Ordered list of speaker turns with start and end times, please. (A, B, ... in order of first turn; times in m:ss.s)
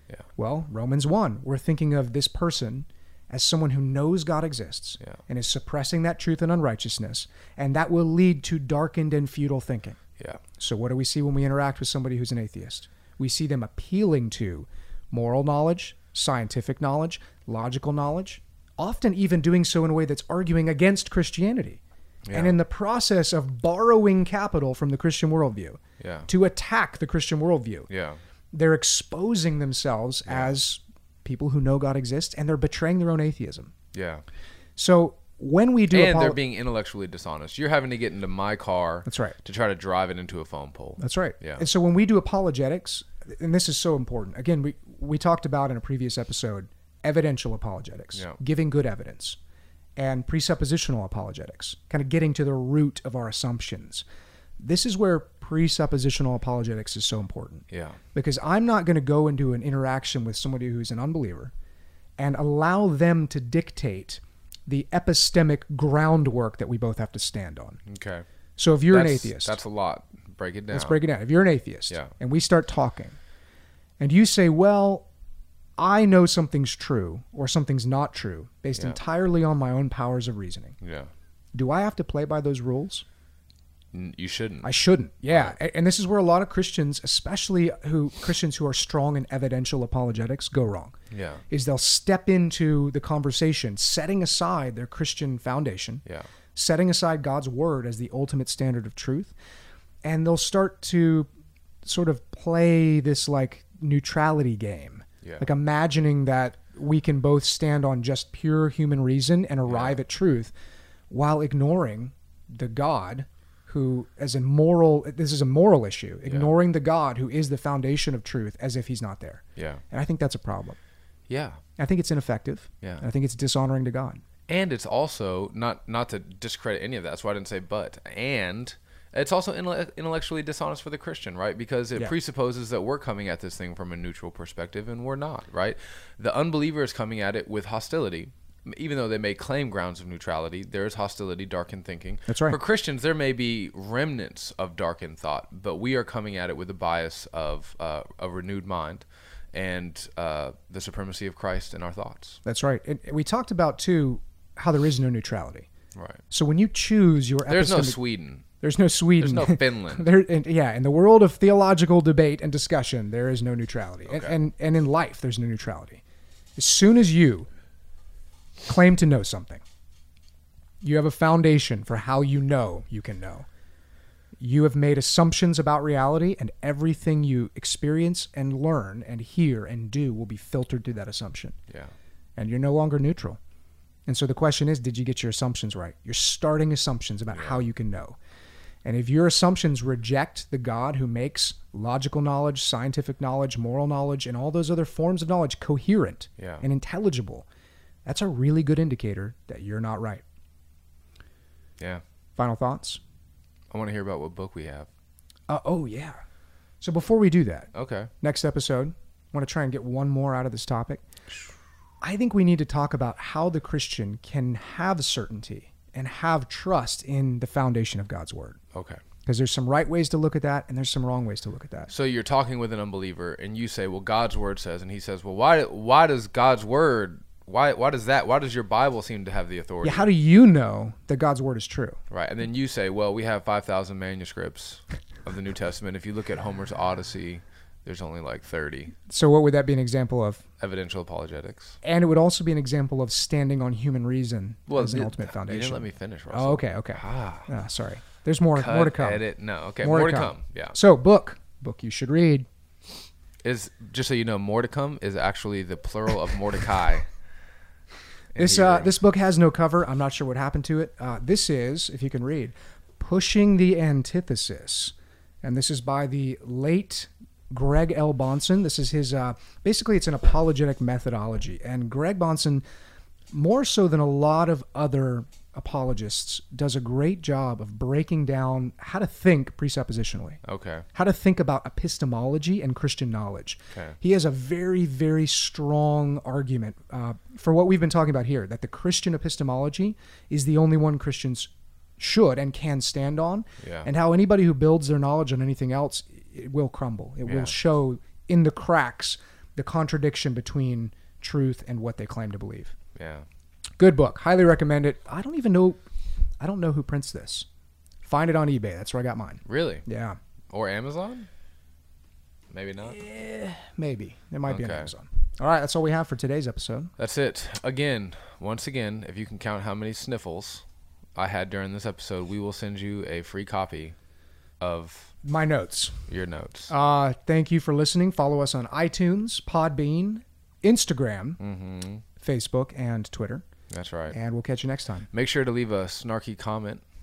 0:00.4-0:10.0 A
0:10.6-0:21.8 A
0:22.2-0:22.6 B
0:22.3-0:27.9 A
0:26.0-0:26.3 B
0:27.9-0:28.2 B
0:28.5-0:33.7 A
0:30.3-0:30.6 B
0:33.9-0:34.2 B
0:34.8-0:36.4 A
0:35.9-0:41.6 B
0:39.1-0:39.4 A
0:41.0-0:49.4 A
0:50.0-0:54.0 A
0:54.6-1:01.5 A
0:57.7-0:58.0 B
1:02.2-1:07.8 A
1:07.9-1:08.3 B
1:08.6-1:09.6 A
1:08.9-1:11.0 B
1:10.7-1:13.2 A
1:14.0-1:15.1 A
1:15.8-1:20.8 A
1:20.8-1:21.1 B
1:21.5-1:23.0 A
1:23.9-1:24.7 B
1:24.6-1:30.9 A
1:25.3-1:25.6 B
1:31.1-1:31.4 B
1:31.5-1:36.0 A
1:36.6-1:39.3 A
1:40.0-1:41.3 A
1:41.8-1:50.5 A
1:49.7-1:50.0 B
1:51.1-2:00.8 A
1:59.6-1:59.8 B
2:01.3-2:01.6 B
2:01.8-2:04.2 A
2:04.5-2:32.4 B
2:22.3-2:22.6 A
2:32.4-2:35.7 A
2:36.0-2:36.2 B
2:36.3-2:38.0 A
2:37.5-2:38.4 B
2:38.6-2:46.0 A
2:39.2-2:40.1 B
2:44.1-2:44.4 B
2:46.6-2:47.5 A
2:48.7-2:49.6 A
2:50.8-2:53.5 A
2:54.4-3:01.6 A
3:02.4-3:03.4 A
3:04.1-3:08.2 A
3:07.3-3:07.6 B
3:08.8-3:17.5 A
3:16.4-3:16.6 B
3:18.0-3:20.2 A
3:22.4-3:23.0 A
3:23.7-3:24.9 B
3:25.5-3:26.2 A
3:26.8-3:31.0 A
3:27.7-3:28.1 B
3:32.0-3:38.6 A
3:38.7-3:39.0 B
3:39.3-3:41.9 A
3:41.9-3:50.1 B
3:49.8-3:52.0 A
3:52.1-3:58.9 B
3:59.1-4:00.4 A
4:00.6-4:01.8 B
4:01.8-4:09.2 A
4:04.7-4:07.5 B
4:08.6-4:10.8 B
4:09.8-4:12.5 A
4:13.4-4:17.1 B
4:18.4-4:18.9 B
4:18.4-4:32.6 A
4:33.3-4:40.4 A
4:40.5-4:40.9 B
4:41.0-5:02.8 A
4:53.6-4:53.9 B
4:57.3-4:57.5 B
5:03.0-5:03.2 B
5:03.8-5:05.8 A
5:06.4-5:07.5 A
5:08.0-5:10.2 A
5:09.4-5:09.9 B
5:10.5-5:11.3 B
5:12.5-5:13.0 B
5:12.8-5:16.9 A
5:14.5-5:14.9 B
5:17.0-5:20.6 B
5:21.2-5:24.0 B
5:24.6-5:25.1 B
5:25.2-5:26.0 A
5:26.1-5:26.7 B
5:26.7-5:31.4 A
5:31.4-5:32.0 B
5:32.2-5:33.5 A
5:33.7-5:34.2 B
5:34.1-5:35.1 A
5:35.1-5:36.8 B